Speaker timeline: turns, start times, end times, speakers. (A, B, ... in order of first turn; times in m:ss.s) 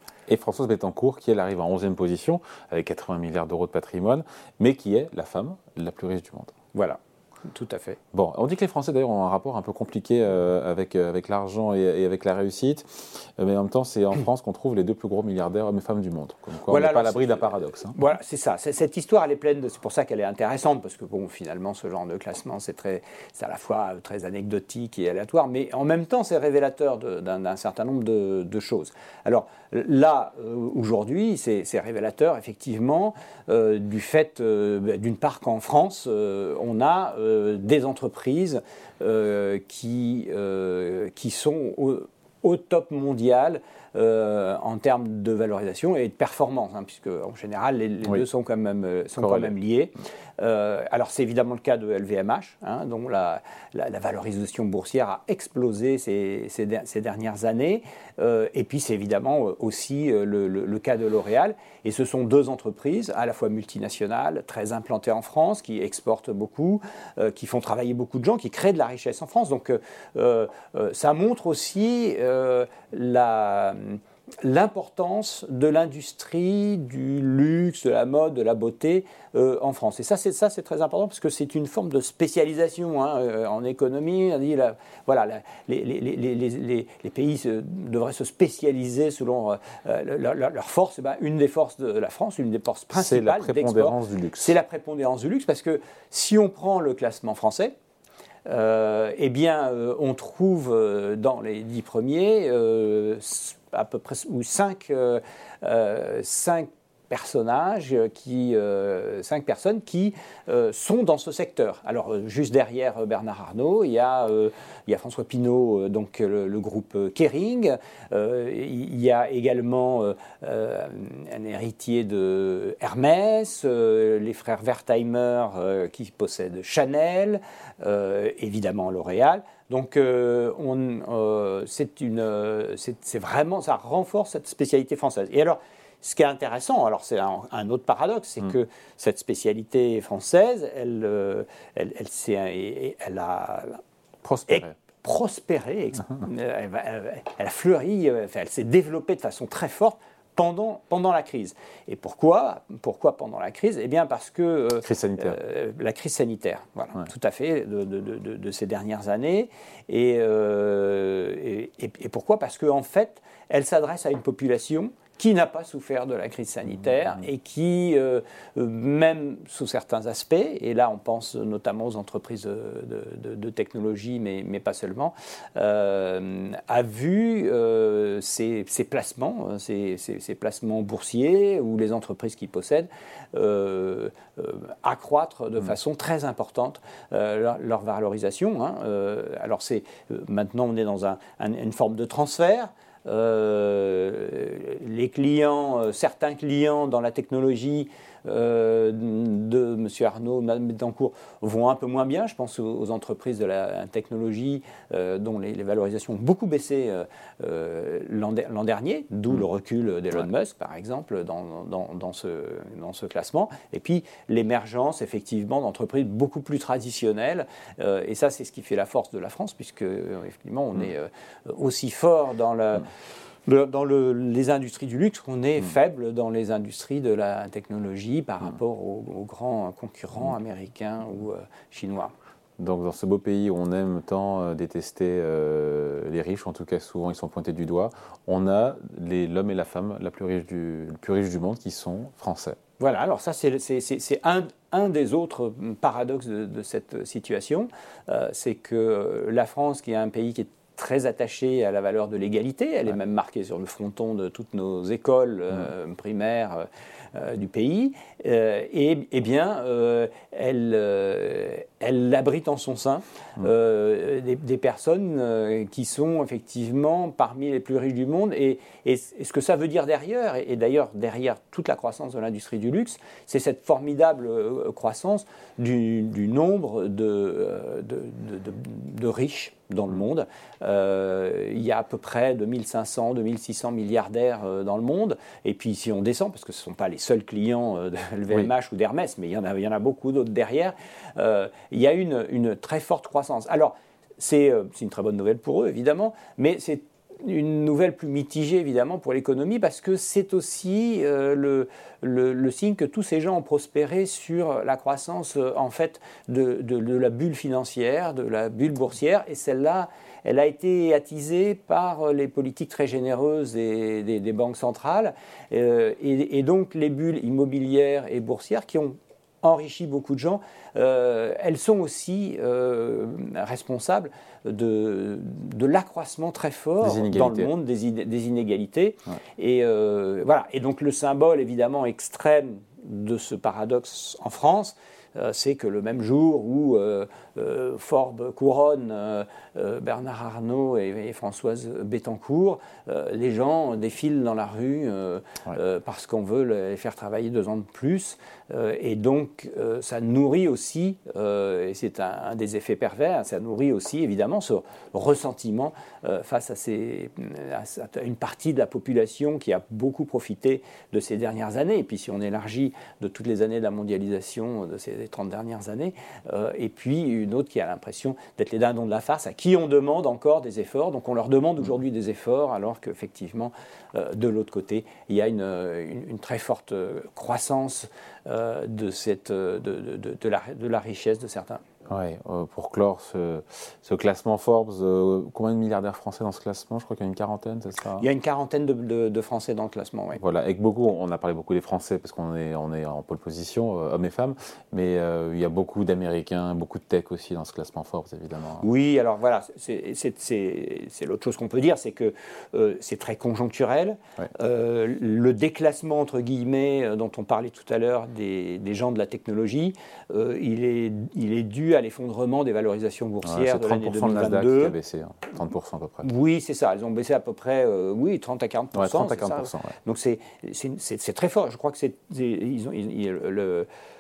0:00.3-0:06.5 A
0:06.7-0:08.0 B
0:08.1-0:18.0 A
0:16.7-1:37.7 B
0:49.2-0:49.5 A
1:32.9-1:34.5 A
1:38.5-2:23.8 B
2:24.2-2:24.7 A
2:24.5-3:42.9 B
2:34.8-2:35.4 A
3:43.5-3:52.1 B
3:52.6-4:02.6 A
4:02.8-6:21.6 B
5:26.8-5:27.5 A
6:21.9-6:28.0 A
6:28.0-6:30.2 B
6:30.2-6:38.6 A
6:38.6-6:54.8 B
6:53.2-6:56.1 A
6:56.0-7:03.7 B
6:58.7-6:59.7 A